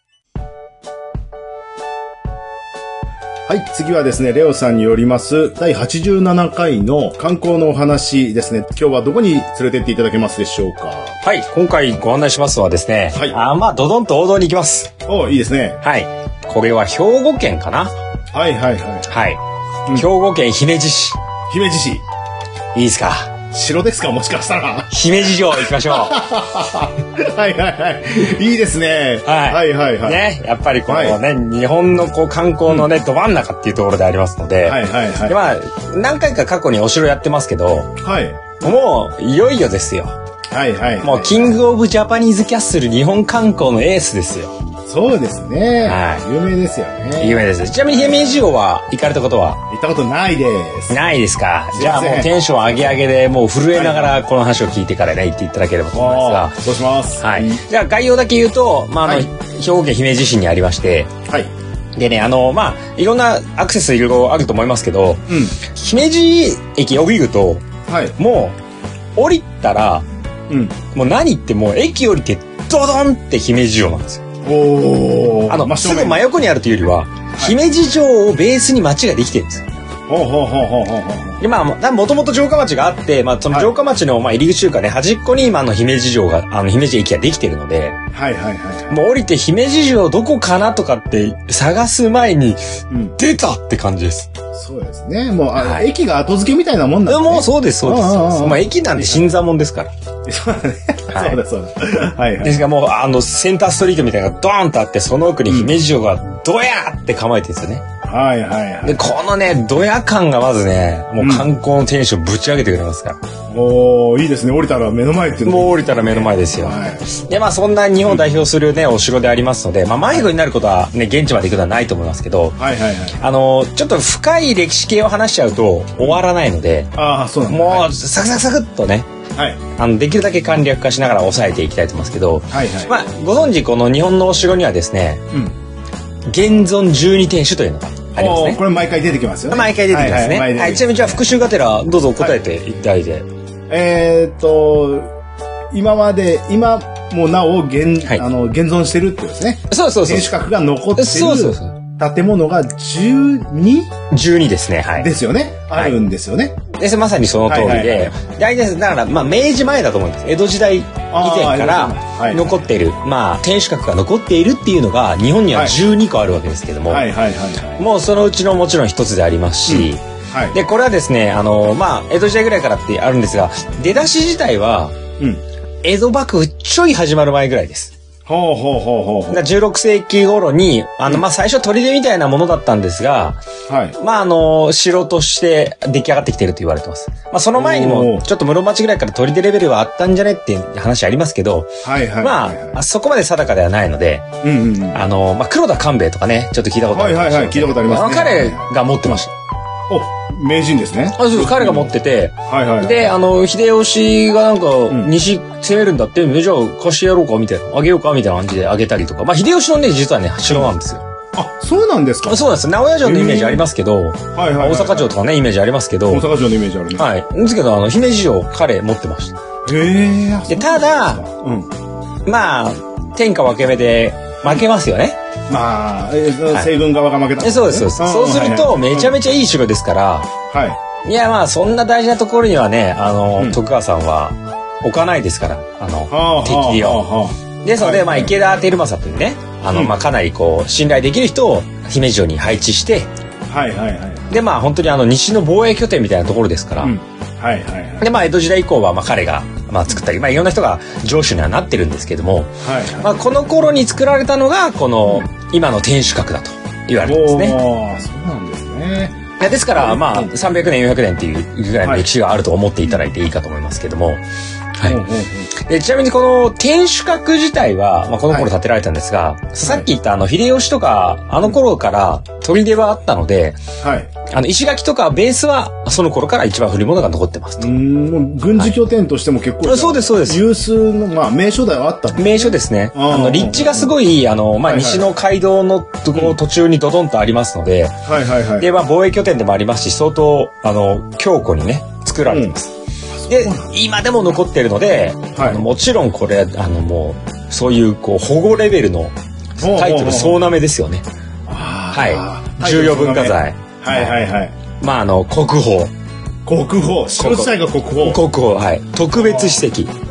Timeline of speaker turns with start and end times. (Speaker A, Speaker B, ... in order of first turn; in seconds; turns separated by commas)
Speaker A: 3.5-11.2, Speaker B: 11.2-14.9, Speaker A: 15.1-15.8, Speaker B: 15.8-17.9, Speaker A: 18.3-19.1, Speaker B: 19.1-19.4, Speaker B: 19.9-21.2, Speaker A: 21.5-22.0, Speaker B: 22.7-23.3, Speaker A: 23.5-30.2, Speaker B: 24.9-26.2, Speaker B: 29.2-37.9, Speaker A: 30.9-31.2, Speaker A: 34.6-35.4, Speaker A: 38.0-38.4, Speaker B: 38.6-40.1, Speaker A: 40.5-41.6, Speaker B: 41.0-44.5, Speaker A: 44.9-48.5, Speaker B: 45.8-46.2, Speaker B: 47.2-49.6, Speaker A: 49.7-51.0, Speaker B: 50.9-56.6, Speaker A: 51.7-52.3, Speaker A: 53.7-54.2, Speaker A: 55.9-57.6, Speaker B: 57.2-61.1, Speaker A: 59.0-59.3, Speaker B: 62.0-67.6, Speaker A: 65.3-65.6, Speaker A: 67.9-68.2, Speaker B: 68.2-68.6, Speaker B: 69.2-70.0, Speaker A: 70.5-70.8, Speaker B: 70.9-74.2, Speaker A: 74.4-76.2, Speaker B: 75.5-79.7, Speaker A: 80.1-81.4, Speaker B: 81.4-88.0, Speaker A: 88.1-89.0, Speaker B: 88.9-94.3, Speaker A: 92.9-93.2, Speaker A: 94.5-99.3, Speaker B: 95.6-95.9, Speaker B: 97.1-99.9, Speaker A: 100.3-102.6, Speaker B: 101.1-101.4, Speaker B: 102.4-107.8, Speaker A: 105.5-105.8, Speaker A: 108.0-109.0, Speaker B: 108.8-113.2, Speaker A: 111.2-111.5, Speaker A: 113.5-117.1, Speaker B: 115.5-122.6, Speaker A: 122.6-123.2, Speaker B: 123.2-126.9, Speaker A: 127.0-127.9, Speaker B: 127.5-129.1, Speaker A: 129.4-129.6, Speaker B: 129.8-135.2, Speaker A: 132.5-133.0, Speaker B: 136.3-138.6, Speaker A: 138.2-141.2, Speaker B: 139.5-143.3, Speaker A: 143.7-145.1, Speaker A: 145.7-153.9, Speaker B: 149.7-150.3, Speaker B: 151.0-151.8, Speaker B: 154.1-155.1, Speaker A: 155.0-156.6, Speaker B: 156.7-167.1, Speaker A: 157.5-158.1, Speaker A: 161.1-162.6, Speaker A: 165.5-165.8, Speaker A: 166.9-167.8, Speaker B: 167.8-170.0, Speaker A: 169.7-170.6, Speaker B: 170.5-175.0, Speaker B: 175.8-177.9, Speaker A: 178.3-179.4, Speaker B: 179.3-183.4, Speaker A: 183.7-184.0, Speaker B: 184.0-194.3, Speaker A: 187.6-188.2, Speaker A: 191.8-192.8, Speaker A: 194.4-195.1, Speaker B: 194.9-199.3, Speaker A: 196.9-199.2, Speaker A: 199.9-201.9, Speaker B: 201.2-211.1, Speaker A: 202.5-203.2, Speaker A: 211.3-212.4, Speaker B: 212.2-216.3, Speaker A: 213.0-213.6, Speaker A: 214.3-215.1, Speaker A: 216.1-217.1, Speaker B: 216.9-219.4, Speaker A: 219.7-221.7, Speaker B: 220.5-221.2, Speaker B: 222.2-225.2, Speaker A: 225.5-229.2, Speaker B: 227.4-230.3, Speaker A: 230.5-230.8, Speaker B: 231.0-237.0, Speaker A: 236.1-238.3, Speaker B: 237.6-243.1, Speaker A: 243.5-244.3, Speaker B: 244.3-246.9, Speaker A: 246.8-248.1, Speaker B: 248.0-257.6, Speaker A: 252.6-253.1, Speaker A: 257.0-260.3, Speaker B: 259.4-264.2, Speaker B: 264.8-265.0, Speaker A: 264.8-265.5, Speaker B: 265.6-273.6, Speaker A: 273.8-274.1, Speaker B: 274.3-277.7, Speaker A: 277.6-283.9, Speaker B: 279.6-280.4, Speaker B: 282.2-288.0, Speaker A: 284.6-285.1, Speaker A: 288.1-288.7, Speaker B: 288.6-292.7, Speaker A: 292.3-292.6, Speaker A: 293.1-293.8, Speaker B: 293.3-301.1, Speaker A: 295.4-295.6, Speaker A: 299.6-300.5, Speaker A: 301.5-304.5, Speaker B: 301.9-304.2, Speaker B: 304.8-305.9, Speaker A: 306.5-308.2, Speaker B: 307.2-309.9, Speaker A: 309.1-309.6